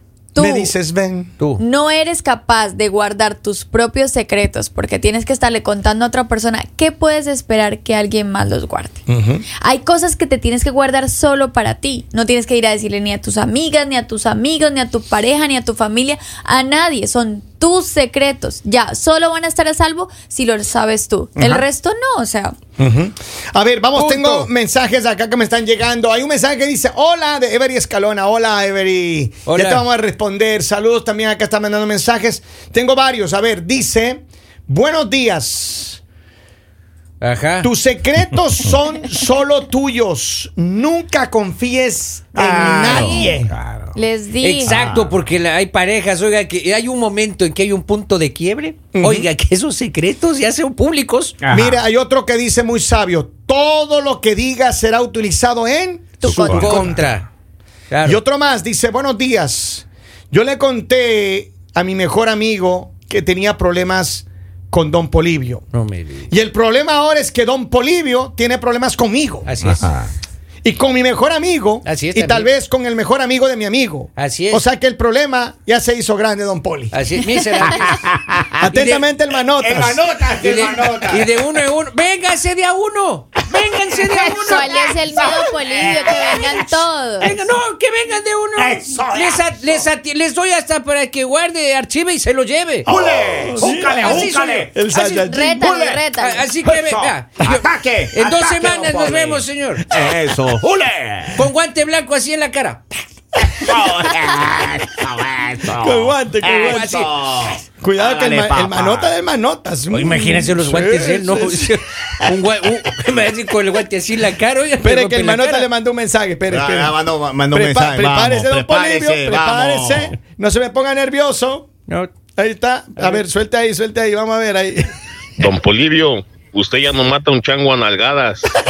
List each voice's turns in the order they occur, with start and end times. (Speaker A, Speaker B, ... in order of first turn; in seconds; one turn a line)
Speaker A: 0.3-0.8
Speaker B: 0.4-1.3
Speaker A: 1.6-9.0
Speaker B: 9.1-9.4
Speaker A: 9.6-22.6
Speaker B: 21.4-21.6
Speaker B: 22.8-36.0
Speaker C: 23.9-24.5
Speaker C: 29.5-29.8
Speaker C: 37.2-37.7
Speaker B: 37.6-43.5
Speaker D: 42.4-43.9
Speaker A: 42.9-43.3
Speaker A: 43.9-44.8
Speaker C: 44.4-51.4
Speaker D: 44.6-45.1
Speaker B: 48.9-49.3
Speaker D: 51.4-51.8
Speaker B: 51.5-57.1
Speaker A: 56.2-56.8
Speaker D: 56.3-56.8
Speaker C: 56.3-57.3
Speaker C: 57.9-58.2
Speaker B: 58.0-65.6
Speaker C: 65.7-66.3
Speaker B: 66.3-69.5
Speaker C: 69.4-69.9
Speaker D: 69.6-70.1
Speaker B: 70.6-77.0
Speaker C: 71.8-72.5
Speaker C: 74.2-74.6
Speaker C: 76.9-78.1
Speaker D: 77.7-78.0
Speaker B: 78.6-80.0
Speaker C: 78.7-79.0
Speaker D: 79.6-81.3
Speaker C: 80.4-84.8
Speaker A: 84.3-87.4
Speaker D: 84.9-86.5
Speaker C: 87.2-92.9
Speaker D: 88.5-89.8
Speaker B: 92.8-95.8
Speaker D: 92.9-94.8
Speaker C: 94.0-94.6
Speaker A: 94.9-96.5
Speaker D: 95.6-96.0
Speaker C: 96.2-99.9
Speaker D: 96.6-101.5
Speaker C: 101.3-102.9
Speaker D: 103.4-109.1
Speaker B: 105.8-107.0
Speaker C: 106.6-107.1
Speaker B: 107.8-111.8
Speaker C: 109.9-115.7
Speaker B: 114.8-117.0
Speaker D: 116.5-120.2
Speaker B: 117.5-121.7
Speaker B: 122.4-124.9
Speaker E: 125.4-128.5